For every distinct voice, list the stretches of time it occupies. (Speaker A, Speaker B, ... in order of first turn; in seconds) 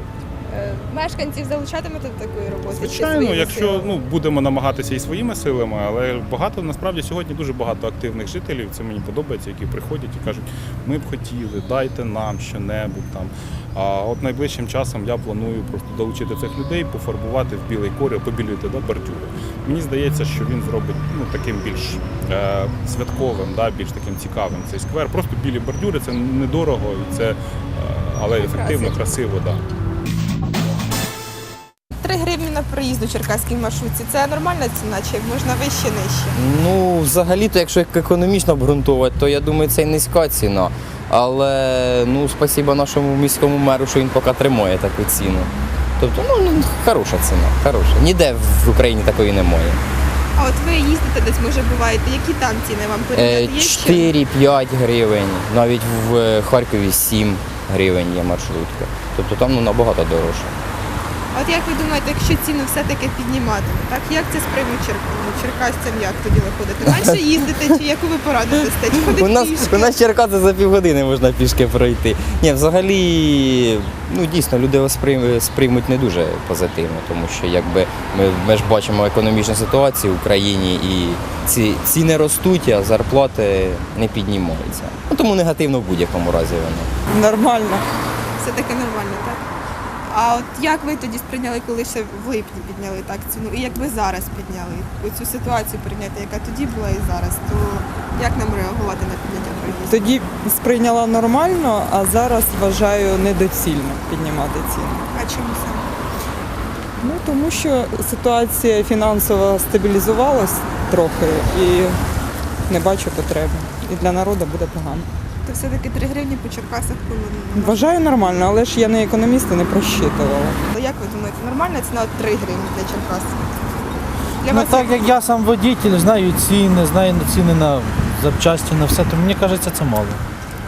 Speaker A: 0.5-3.9, 28.4-29.0, 32.0-36.3, 50.4-54.1, 61.3-69.9, 87.2-87.8, 88.4-89.4, 90.1-101.5, 102.1-103.1, 104.9-105.8, 107.0-107.5, 108.2-111.0, 113.6-114.2, 115.5-118.8, 120.4-123.4
Speaker B: 2.7-29.6
Speaker C: 36.3-49.8, 53.1-60.5, 66.8-67.8, 68.5-86.9
Speaker D: 87.3-87.6, 99.9-104.9, 107.1-111.9, 112.7-115.0, 117.6-120.5
Speaker E: 124.4-130.2